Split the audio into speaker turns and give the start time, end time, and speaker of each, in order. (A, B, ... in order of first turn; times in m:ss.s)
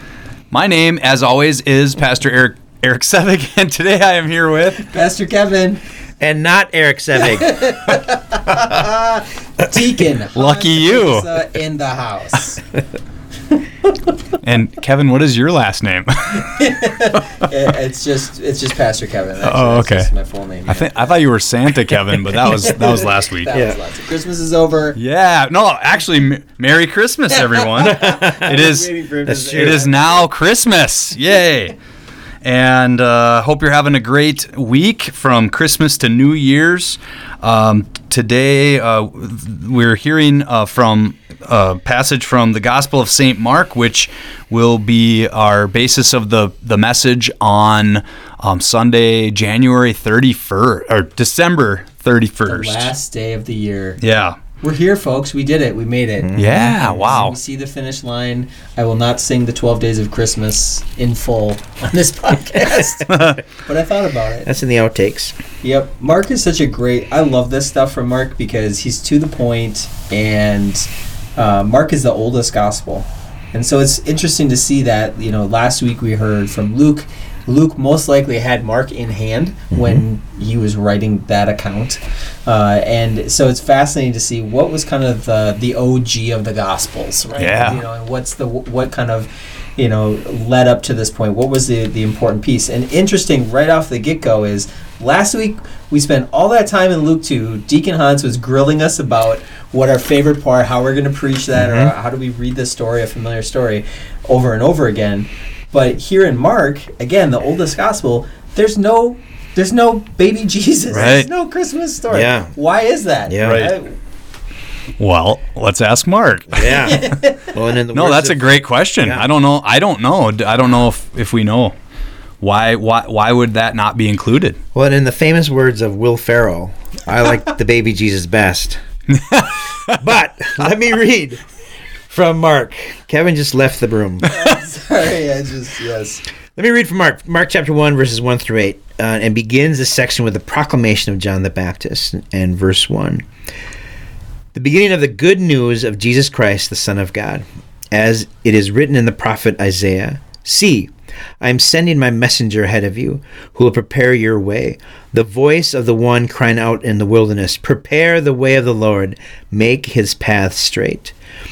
0:00.5-0:04.8 A
0:04.8-0:05.8 B
0:06.2-0:07.8 C
0:07.3-0:12.6 B
0:10.4-0:11.3 A
0:14.4-0:16.9 A
0:16.4-0:21.1 B
0:19.4-0:20.1 A
0:20.7-0:23.5 A
0:22.3-0:25.0 B
0:23.5-0:23.8 C
0:25.0-0:31.8 A
0:27.4-0:30.1 B
0:27.8-0:28.5 C
0:29.3-0:29.9 C
0:32.4-0:52.9 A
0:52.5-0:54.0 B
0:54.0-0:54.4 A
0:54.6-1:04.5 B
0:56.2-0:57.1 C
0:56.4-0:57.4 A
1:03.1-1:03.4 A
1:04.4-1:05.4 C
1:05.6-1:10.9 B
1:11.4-1:54.0 B
1:19.7-1:20.0 C
1:27.4-1:27.8 A
1:41.6-1:41.9 C
1:50.9-1:51.3 A
1:52.1-1:52.5 C
1:53.3-1:53.7 C
1:53.4-1:53.7 A
1:55.0-1:57.1 A
1:56.5-1:59.3 C
1:56.6-1:57.5 B
1:57.9-2:01.7 A
2:02.4-2:04.6 A
2:04.7-2:08.8 C
2:09.1-2:10.0 A
2:09.9-2:11.4 C
2:12.1-2:14.3 C
2:14.3-2:16.2 B
2:16.6-2:23.3 C
2:24.5-2:41.2 C